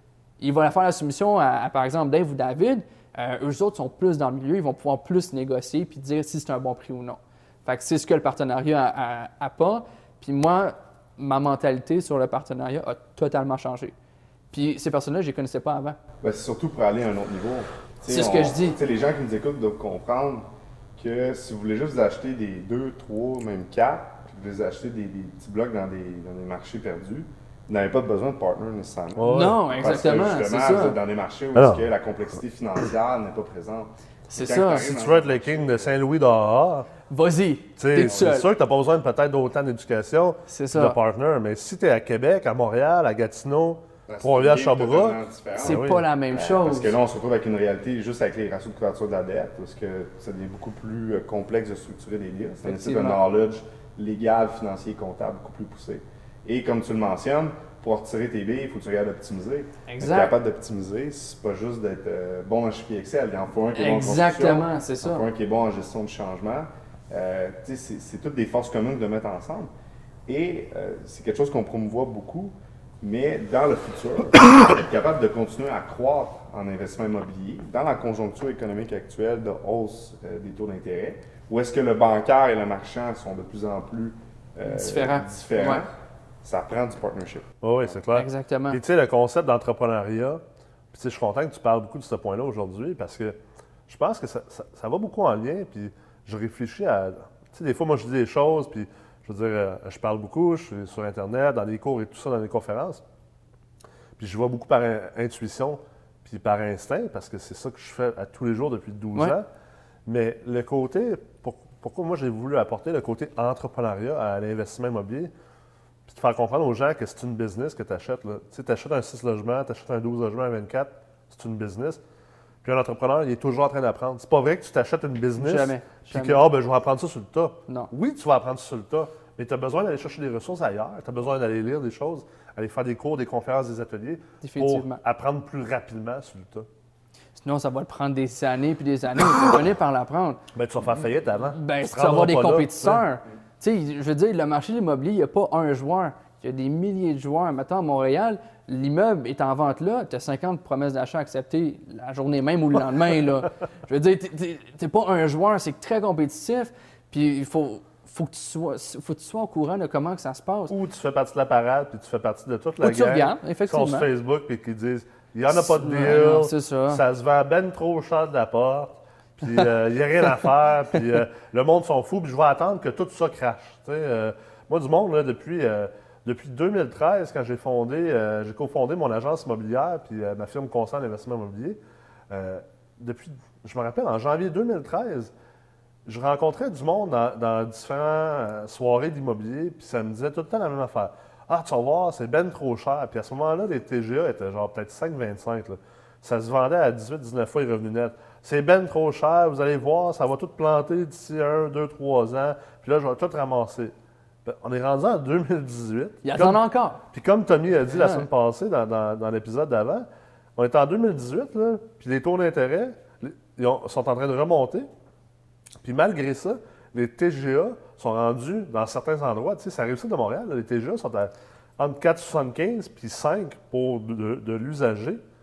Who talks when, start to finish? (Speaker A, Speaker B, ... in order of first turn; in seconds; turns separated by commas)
Speaker A: 0.4-13.9, Speaker A: 14.5-16.0, Speaker B: 16.2-20.4, Speaker A: 18.1-18.8, Speaker B: 21.0-35.9, Speaker C: 29.2-29.6, Speaker A: 29.2-31.0, Speaker C: 31.5-31.8, Speaker A: 34.3-34.9, Speaker C: 34.8-36.9, Speaker A: 37.1-38.5, Speaker C: 37.8-46.0, Speaker A: 40.5-41.0, Speaker B: 44.1-69.7, Speaker A: 45.6-47.0, Speaker A: 52.6-53.2, Speaker A: 59.9-60.3, Speaker A: 63.7-65.2, Speaker B: 70.3-85.9, Speaker A: 84.7-85.8, Speaker B: 86.4-87.5, Speaker C: 87.6-90.4, Speaker A: 88.1-88.8, Speaker C: 90.9-93.4, Speaker C: 93.9-103.0, Speaker C: 104.2-109.5, Speaker C: 110.0-115.3, Speaker C: 116.1-122.0, Speaker C: 122.6-136.7, Speaker A: 125.3-126.4, Speaker A: 134.4-135.0, Speaker A: 137.3-140.4, Speaker C: 140.5-143.0, Speaker A: 141.5-160.7, Speaker C: 160.7-181.8, Speaker A: 162.8-164.1, Speaker A: 165.5-167.0, Speaker C: 182.3-185.3, Speaker C: 186.0-203.9, Speaker C: 204.4-206.6, Speaker A: 206.2-207.0, Speaker C: 207.1-214.9, Speaker A: 207.9-208.3, Speaker C: 215.8-225.2